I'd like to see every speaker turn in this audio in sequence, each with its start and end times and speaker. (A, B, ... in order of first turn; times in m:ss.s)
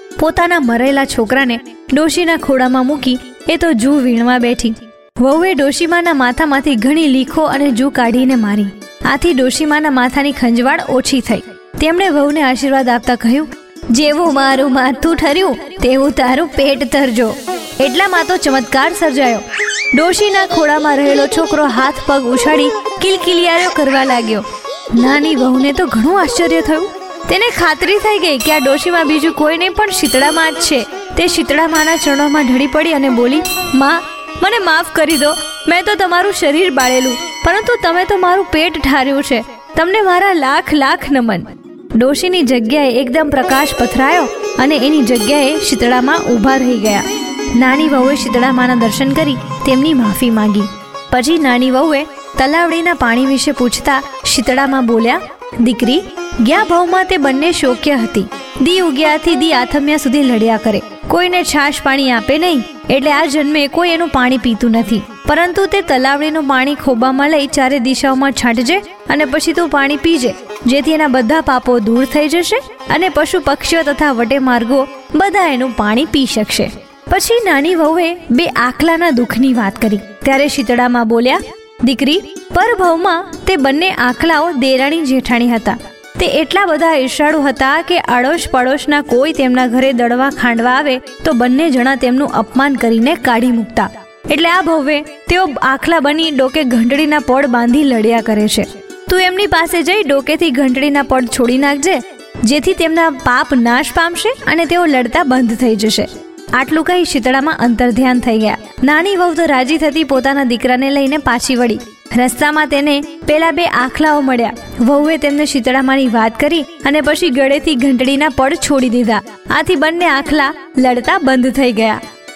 0:00.2-2:02.0 A